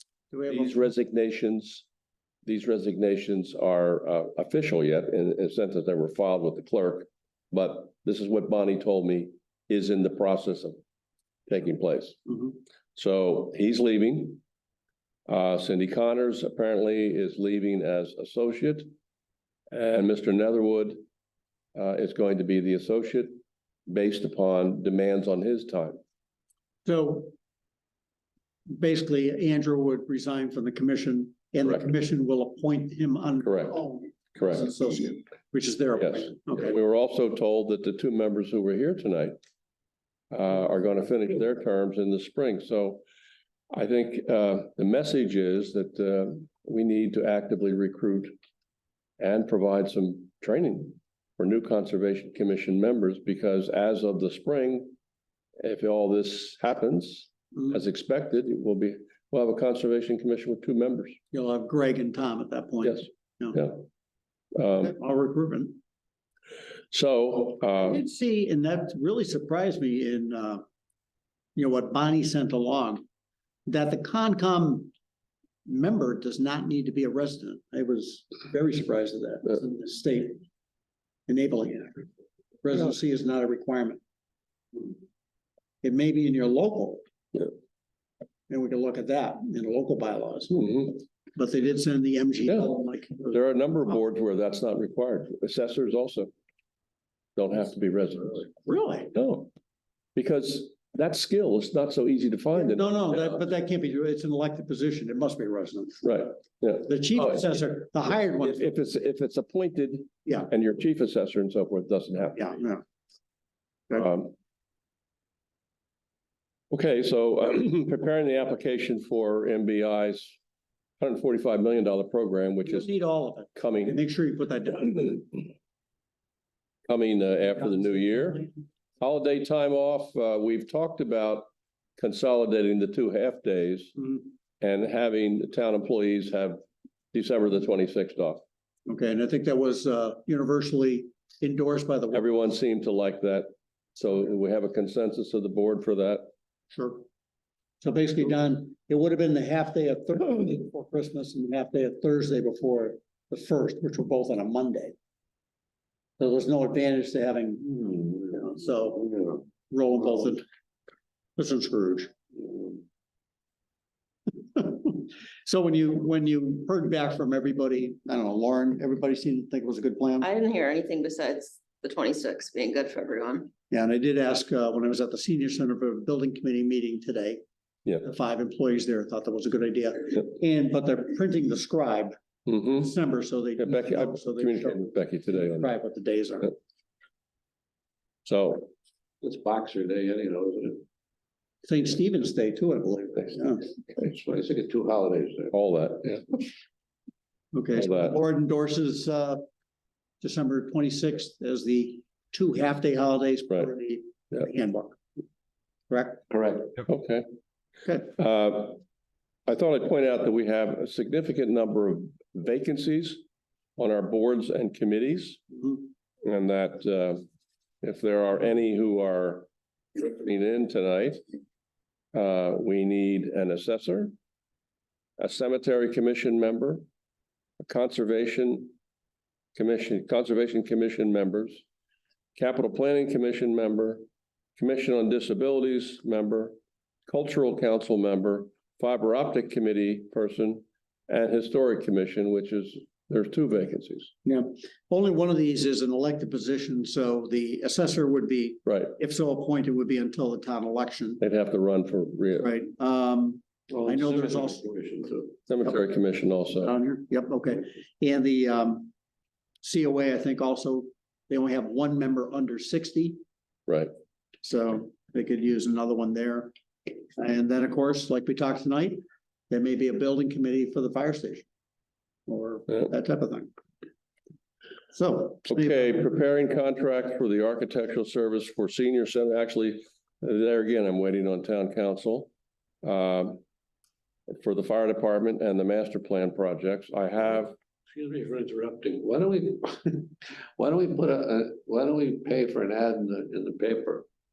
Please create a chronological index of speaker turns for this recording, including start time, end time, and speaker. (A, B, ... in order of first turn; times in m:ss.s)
0:00.3-0:00.9 A
0:00.5-0:01.9 B
0:02.5-0:10.8 B
0:11.5-0:14.4 B
0:15.3-0:18.9 B
0:19.7-0:21.0 B
0:21.8-0:26.0 B
0:26.9-0:27.3 A
0:28.8-0:36.8 A
0:33.5-0:33.7 B
0:36.0-0:39.4 B
0:40.3-0:43.0 B
0:43.7-0:48.3 B
0:49.2-0:55.0 B
0:55.6-1:01.2 B
1:01.3-1:03.7 A
1:03.6-1:03.8 B
1:04.6-1:04.9 B
1:04.7-1:05.8 A
1:06.9-1:08.0 B
1:07.8-1:10.6 A
1:11.6-1:13.0 A
1:13.7-1:14.9 A
1:15.7-1:20.4 A
1:21.3-1:22.1 A
1:22.6-1:24.0 A
1:25.8-1:27.0 A
1:28.5-1:30.8 A
1:30.6-1:30.9 B
1:31.4-1:33.4 A
1:33.3-1:36.3 B
1:37.4-1:38.6 B
1:38.7-1:39.1 A
1:39.1-1:39.5 B
1:40.2-1:43.4 B
1:42.6-1:46.1 A
1:46.0-1:47.4 B
1:46.8-1:48.8 A
1:48.4-1:52.6 B
1:52.4-1:52.8 A
1:54.0-1:54.3 B
1:56.7-2:00.4 B
2:01.0-2:02.9 B
2:02.6-2:05.3 A
2:03.6-2:04.0 B
2:06.9-2:08.5 B
2:09.0-2:11.5 B
2:12.0-2:14.0 B
2:14.6-2:16.6 B
2:17.1-2:18.4 B
2:18.9-2:22.2 A
2:22.1-2:26.3 B
2:26.7-2:27.0 A
2:27.8-2:35.0 A
2:36.2-2:39.1 A
2:37.9-2:39.4 C
2:39.7-2:40.4 A
2:41.4-2:42.1 A
2:44.5-2:50.3 A
2:50.2-2:53.5 D
2:53.7-2:57.4 A
2:58.0-3:06.5 A
3:02.5-3:02.9 B
3:03.6-3:05.7 B
3:08.3-3:08.7 B
3:09.2-3:10.8 C
3:11.7-3:13.7 A
3:13.9-3:15.5 C
3:15.5-3:16.2 B
3:17.5-3:19.4 A
3:20.2-3:25.0 A
3:25.9-3:26.2 A
3:26.3-3:26.8 C
3:26.9-3:27.3 B
3:27.8-3:28.1 A
3:28.2-3:28.8 B
3:29.5-3:33.2 B
3:33.8-3:35.4 B
3:36.2-3:37.2 B
3:37.8-3:41.2 B
3:42.1-3:44.1 B
3:45.2-3:46.8 B
3:47.6-3:48.7 B
3:49.6-3:51.6 B
3:52.4-3:54.0 B
3:54.6-3:56.6 B
3:57.1-4:04.1 B
4:04.2-4:11.2 A
4:08.7-4:08.9 B
4:11.2-4:12.5 B
4:12.4-4:14.6 A
4:13.7-4:15.4 C
4:15.5-4:16.7 B
4:16.6-4:18.9 A
4:19.6-4:23.2 A
4:24.4-4:31.4 A
4:32.3-4:33.5 A
4:34.9-4:36.1 A
4:35.5-4:42.3 B
4:42.8-4:43.4 B
4:44.3-4:47.6 B
4:48.0-4:54.1 C